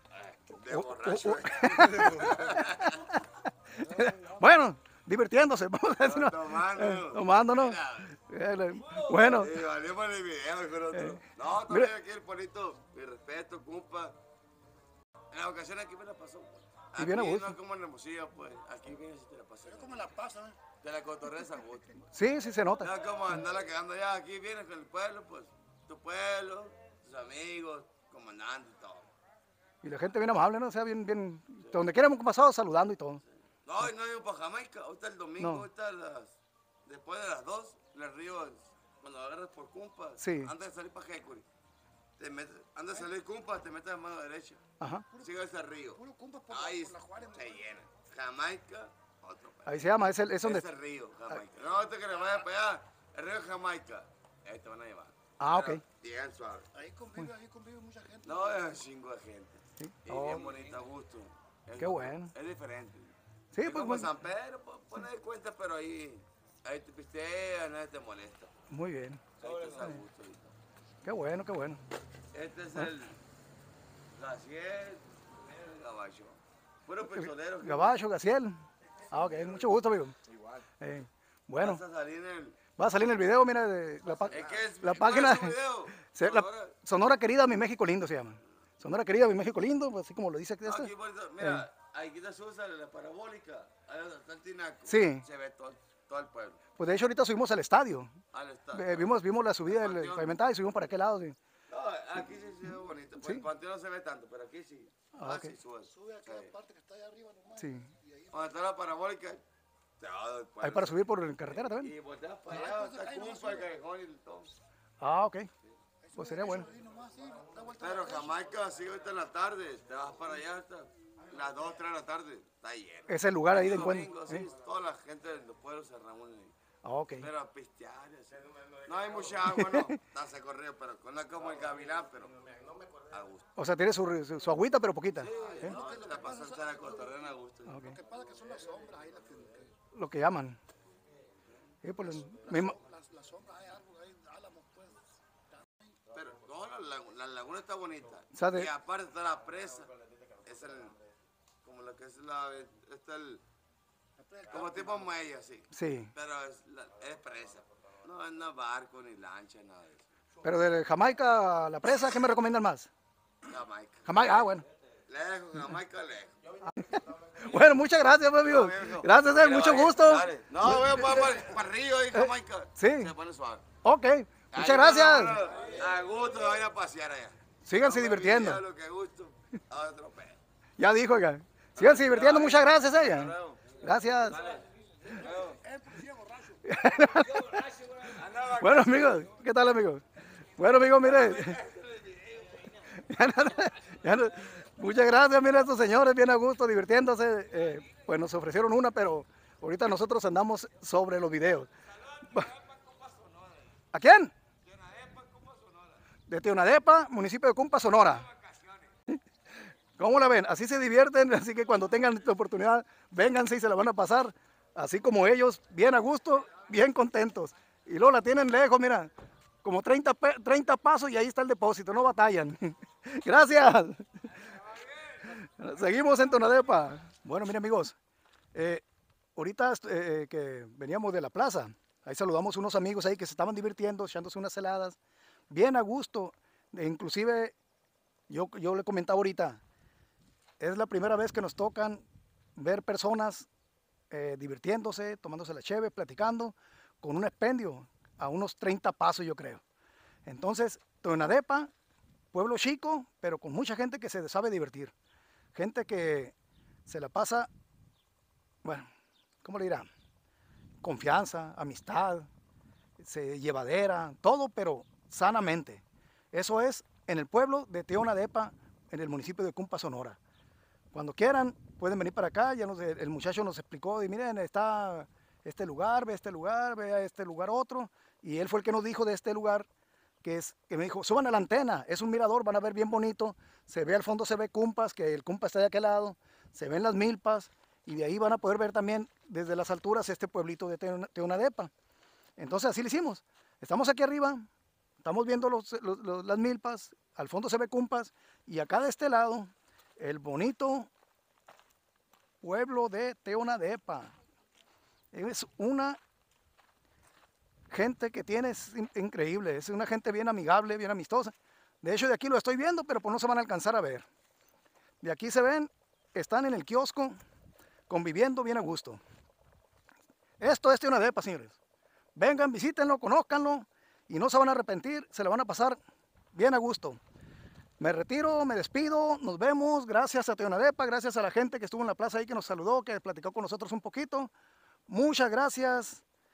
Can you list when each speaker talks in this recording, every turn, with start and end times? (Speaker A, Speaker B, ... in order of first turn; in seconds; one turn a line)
Speaker A: 0.2-3.2
Speaker B: 0.7-9.6
Speaker A: 6.0-8.2
Speaker A: 8.8-14.2
Speaker B: 10.9-11.9
Speaker A: 15.3-22.0
Speaker B: 17.0-17.6
Speaker C: 19.9-20.6
Speaker B: 22.1-22.9
Speaker A: 22.8-29.1
Speaker B: 29.8-33.2
Speaker A: 33.6-41.5
Speaker B: 35.4-35.7
Speaker B: 40.2-40.5
Speaker A: 42.2-44.6
Speaker B: 44.8-45.1
Speaker A: 45.1-56.7
Speaker C: 46.0-47.5
Speaker B: 49.7-50.7
Speaker B: 55.4-55.8
Speaker C: 56.8-58.4
Speaker A: 58.2-68.5
Speaker B: 59.8-60.5
Speaker B: 61.8-62.3
Speaker B: 63.5-64.1
Speaker B: 68.7-69.2
Speaker A: 69.4-70.5
Speaker B: 71.0-71.8
Speaker A: 72.3-73.2
Speaker A: 74.1-78.0
Speaker B: 77.2-80.2
Speaker A: 79.2-79.5
Speaker A: 80.2-80.6
Speaker B: 80.8-81.8
Speaker A: 81.6-82.6
Speaker B: 82.8-90.9
Speaker A: 84.3-86.8
Speaker A: 90.6-96.6
Speaker B: 94.9-95.2
Speaker B: 96.8-98.2
Speaker A: 98.3-100.4
Speaker B: 98.7-101.4
Speaker A: 101.7-106.6
Speaker B: 105.2-105.5
Speaker C: 106.0-108.3
Speaker B: 107.6-107.9
Speaker A: 108.3-109.4
Speaker A: 110.0-111.1
Speaker B: 110.6-111.9
Speaker A: 111.6-114.6
Speaker C: 112.5-113.6
Speaker B: 115.0-115.5
Speaker C: 116.1-118.3
Speaker B: 116.2-116.7
Speaker A: 117.8-126.5
Speaker B: 123.1-124.5
Speaker B: 126.8-127.3
Speaker A: 127.2-133.5
Speaker B: 129.5-130.0
Speaker B: 133.6-135.8
Speaker A: 135.2-138.0
Speaker C: 135.7-136.7
Speaker B: 137.7-138.0
Speaker C: 137.9-139.7
Speaker B: 139.9-140.6
Speaker B: 141.8-142.8
Speaker C: 142.6-145.0
Speaker A: 146.1-151.0
Speaker B: 148.3-148.7
Speaker A: 151.6-153.4
Speaker C: 154.3-154.5
Speaker A: 154.4-160.1
Speaker B: 155.7-156.1
Speaker B: 160.4-162.9
Speaker A: 163.4-164.5
Speaker B: 164.1-164.7
Speaker A: 165.1-166.4
Speaker B: 166.7-171.4
Speaker A: 168.4-173.7
Speaker B: 172.2-173.1
Speaker B: 173.8-175.5
Speaker A: 174.5-180.4
Speaker B: 177.7-178.6
Speaker B: 180.8-184.5
Speaker A: 181.8-185.7
Speaker C: 185.4-186.6
Speaker B: 186.6-191.7
Speaker A: 187.5-189.2
Speaker A: 191.0-192.8
Speaker B: 192.8-201.7
Speaker A: 201.9-203.7
Speaker B: 203.9-204.3
Speaker A: 204.7-206.0
Speaker B: 206.3-208.3
Speaker A: 208.3-208.8
Speaker B: 210.0-219.1
Speaker B: 219.6-224.5
Speaker B: 225.1-228.0
Speaker B: 228.5-228.8
Speaker B: 229.4-235.0
Speaker B: 235.5-237.6
Speaker B: 238.3-239.6
Speaker B: 240.6-242.1
Speaker B: 242.6-243.5
Speaker B: 244.1-249.6
Speaker B: 250.3-251.7
Speaker B: 252.3-254.9
Speaker B: 255.6-256.4
Speaker B: 256.9-257.5
Speaker B: 258.6-258.9
Speaker B: 259.4-259.9
Speaker B: 260.8-262.3
Speaker B: 263.0-270.2
Speaker B: 270.9-279.7
Speaker B: 280.2-291.7
Speaker B: 292.4-294.5
Speaker B: 295.0-300.9
Speaker B: 302.4-304.1
Speaker B: 305.1-306.0
Speaker B: 307.7-314.1
Speaker B: 315.0-317.2
Speaker B: 317.9-319.0
Speaker B: 320.4-321.6
Speaker B: 322.2-325.8
Speaker B: 326.3-327.0
Speaker B: 327.8-334.3
Speaker B: 334.9-336.0